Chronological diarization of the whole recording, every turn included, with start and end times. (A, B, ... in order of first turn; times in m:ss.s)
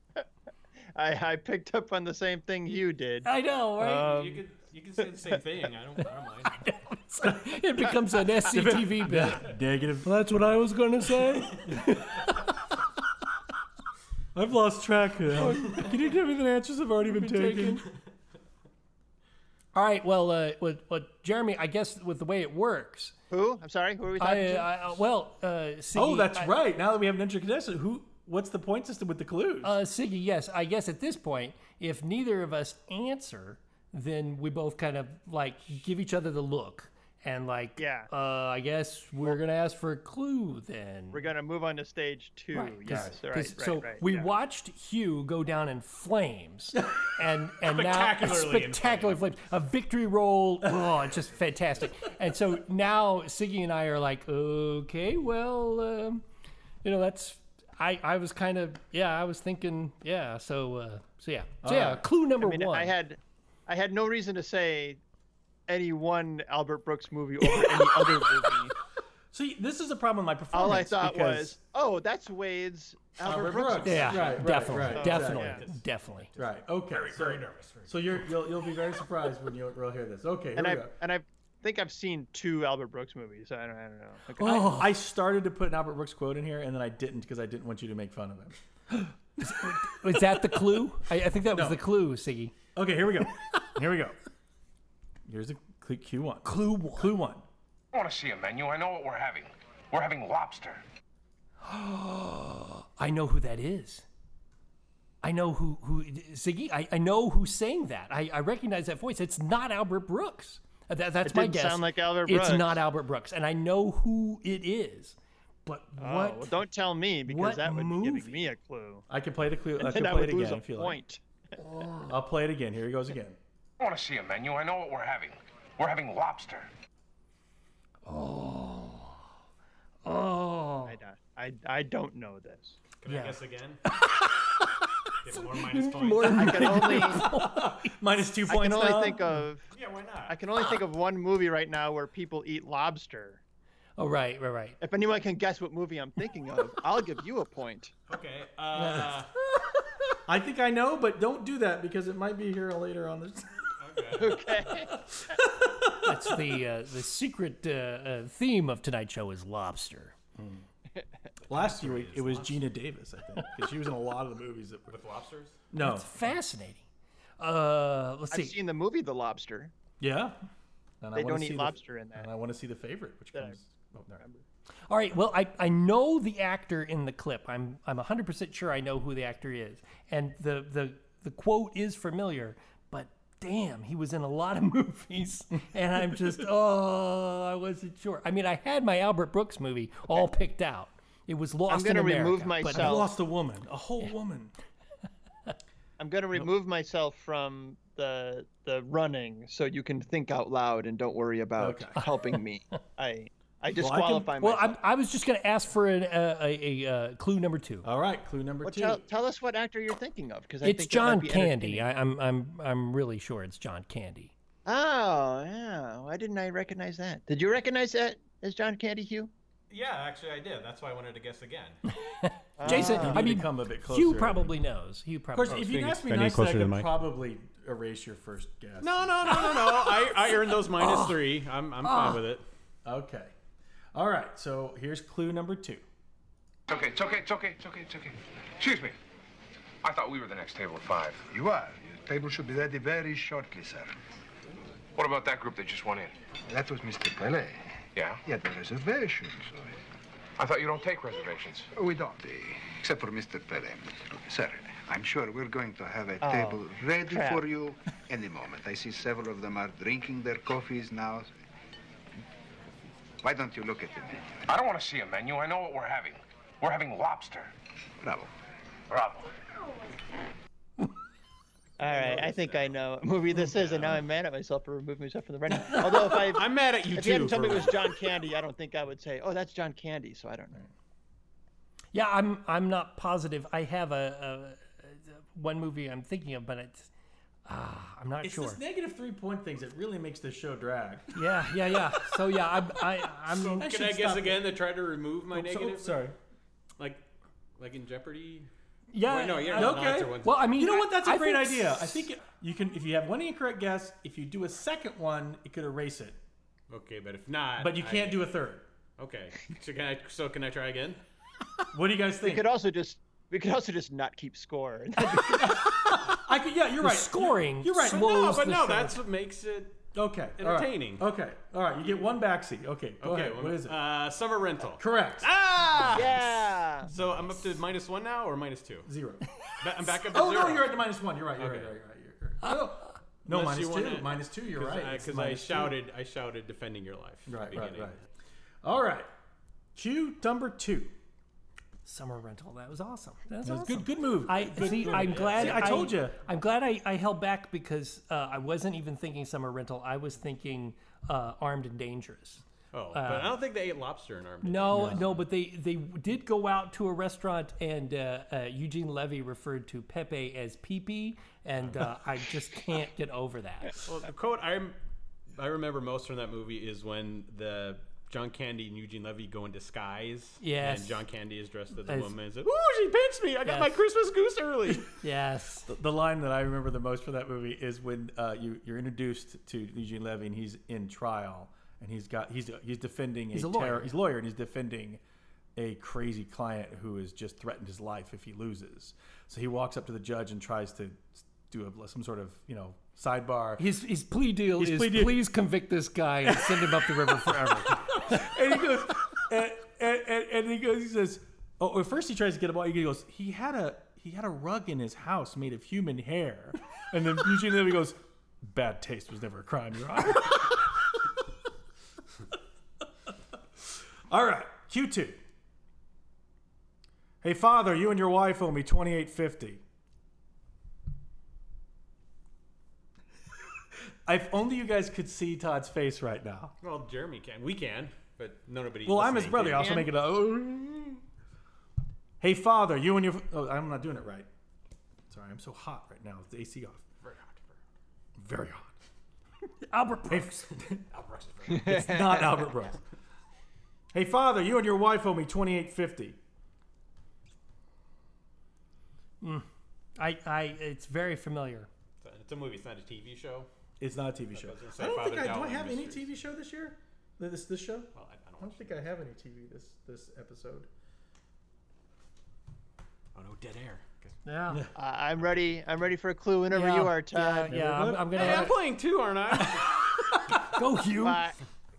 0:01.0-0:03.3 A
0:03.2-0:04.1 B
0:03.8-0:04.4 A
0:03.9-0:06.6 C
0:06.6-0:09.5 B
0:08.5-0:12.1 D
0:10.0-0:11.6 B
0:14.4-0:17.8 D
0:15.4-0:16.1 C
0:17.0-0:17.9 C
0:19.7-0:23.2 B
0:23.3-0:24.7 A
0:24.2-0:26.5 B
0:25.9-0:29.7 D
0:29.6-0:41.2 B
0:37.8-0:38.1 A
0:41.1-0:44.3 A
0:42.5-0:56.2 B
0:42.9-0:43.2 D
0:47.6-0:49.3 C
0:56.8-1:02.9 B
1:01.6-1:02.0 D
1:02.4-1:05.0 A
1:05.7-1:08.7 A
1:07.5-1:08.4 D
1:09.3-1:11.6 D
1:10.5-1:15.6 A
1:13.2-1:15.6 D
1:13.8-1:16.3 B
1:14.9-1:18.7 C
1:16.4-1:20.9 D
1:20.6-1:24.8 A
1:24.4-1:24.9 B
1:24.5-1:29.1 D
1:29.4-1:32.6 B
1:31.5-1:31.8 D
1:32.8-1:34.2 D
1:35.3-1:37.4 D
1:36.4-1:37.2 B
1:37.9-1:40.8 E
1:41.6-1:44.0 B
1:45.2-1:56.5 B
1:51.2-1:52.8 A
1:56.0-1:59.1 A
1:57.3-1:58.4 B
1:59.1-2:01.0 D
1:59.8-2:01.2 A
2:01.6-2:02.1 B
2:02.1-2:03.4 D
2:03.8-2:06.7 E
2:08.1-2:09.2 B
2:10.0-2:11.0 B
2:10.8-2:12.8 A
2:13.0-2:13.8 C
2:13.1-2:13.4 B
2:15.2-2:17.0 C
2:15.5-2:17.9 B
2:16.3-2:17.3 A
2:17.0-2:19.3 D
2:18.4-2:19.6 A
2:19.7-2:20.4 C
2:20.3-2:23.4 A
2:24.0-2:24.8 B
2:24.8-2:27.9 A
2:28.1-2:29.3 C
2:28.8-2:29.1 D
2:30.3-2:33.5 D
2:33.8-2:34.4 C
2:34.2-2:34.9 A
2:35.6-2:36.1 D
2:36.0-2:40.2 B
2:40.4-2:40.6 D
2:41.5-2:42.6 C
2:41.5-2:44.9 D
2:44.9-2:45.6 C
2:45.7-2:46.1 D
2:45.8-2:46.9 B
2:47.4-2:48.5 B
2:48.3-2:49.7 A
2:50.0-2:50.4 D
2:51.0-2:54.2 D
2:51.2-2:52.3 A
2:53.3-2:53.6 A
2:54.2-2:54.4 A
2:54.9-3:13.1 B
3:11.7-3:13.2 A
3:12.7-3:14.5 D
3:16.0-3:24.8 A
3:21.6-3:22.0 D
3:22.0-3:22.4 B
3:23.8-3:24.3 D
3:24.4-3:27.9 B
3:27.8-3:29.0 D
3:28.6-3:31.9 A
3:30.6-3:34.3 B
3:34.7-3:39.3 A
3:39.7-3:41.8 C
3:42.2-3:46.0 B
3:42.6-3:43.2 A
3:42.7-3:44.5 D
3:45.4-3:49.3 D
3:45.7-3:46.9 C
3:48.8-3:52.4 C
3:49.4-3:49.9 B
3:50.8-3:51.2 B
3:51.8-3:52.2 B
3:52.8-3:53.3 D
3:53.9-3:55.8 D
3:56.7-3:59.0 E
3:59.8-4:01.2 E
4:01.3-4:04.0 F
4:05.0-4:06.2 E
4:06.5-4:07.6 F
4:08.0-4:08.2 E
4:08.2-4:09.8 F
4:10.4-4:11.7 E
4:11.7-4:21.3 F
4:16.2-4:17.5 A
4:23.2-4:24.4 F
4:24.5-4:27.5 E
4:28.0-4:28.3 F
4:28.9-4:29.3 E
4:31.8-4:40.6 A
4:31.8-4:32.8 C
4:33.4-4:34.0 C
4:36.2-4:37.9 C
4:41.9-4:46.9 B
4:47.5-4:48.6 B
4:48.2-4:51.2 D
4:51.2-4:53.7 B
4:53.3-4:56.1 C
4:53.6-4:54.4 D
4:55.3-4:56.2 D
4:56.8-4:57.0 C
4:57.6-4:58.5 C
4:58.9-5:02.1 B
4:59.0-5:00.4 C
4:59.6-5:06.2 D
5:06.7-5:08.3 C
5:07.6-5:08.7 D
5:09.0-5:11.0 C
5:11.7-5:12.4 D
5:12.2-5:15.6 A
5:15.3-5:18.0 D
5:15.3-5:16.0 B
5:16.8-5:19.0 B
5:17.9-5:21.0 C
5:19.9-5:23.8 D
5:23.0-5:28.9 C
5:24.8-5:25.3 D
5:25.9-5:26.9 A
5:28.8-5:29.2 D
5:29.6-5:30.8 C
5:30.1-5:35.7 D
5:31.4-5:31.8 C
5:32.4-5:32.7 B
5:33.3-5:38.0 C
5:37.3-5:38.0 D
5:38.6-5:39.1 D
5:39.8-5:40.9 D
5:41.8-5:53.3 B
5:43.4-5:46.2 D
5:44.5-5:45.9 C
5:52.7-5:55.2 C
5:54.4-6:03.8 B
5:54.7-5:55.0 D
6:03.8-6:04.8 C
6:05.4-6:14.9 C
6:10.4-6:11.0 B
6:11.9-6:12.2 B
6:13.5-6:13.7 B
6:15.0-6:15.7 B
6:15.7-6:25.0 D
6:23.3-6:24.0 B
6:25.6-6:33.6 D
6:33.6-6:37.8 B
6:34.6-6:35.2 D
6:36.3-6:50.7 D
6:54.1-6:55.2 D
6:57.2-6:59.6 D
7:04.1-7:06.5 D
7:06.6-7:09.8 C
7:08.9-7:11.0 D
7:09.5-7:09.9 A
7:12.2-7:14.3 D
7:15.1-7:16.8 D
7:17.0-7:17.6 C
7:18.2-7:18.7 D
7:19.7-7:20.5 B
7:20.1-7:20.8 D
7:20.9-7:21.9 C
7:21.6-7:22.8 D
7:23.9-7:26.2 D
7:29.2-7:29.5 B
7:30.0-7:31.7 B
7:32.0-7:33.5 C
7:33.8-7:40.7 D
7:34.3-7:36.2 C
7:38.0-7:38.8 C
7:43.2-7:44.2 C
7:44.2-7:44.6 B
7:44.8-7:47.5 A
7:46.5-7:48.5 B
7:47.5-7:48.5 D
7:48.1-7:49.7 C
7:50.5-7:51.4 B
7:51.0-7:51.4 A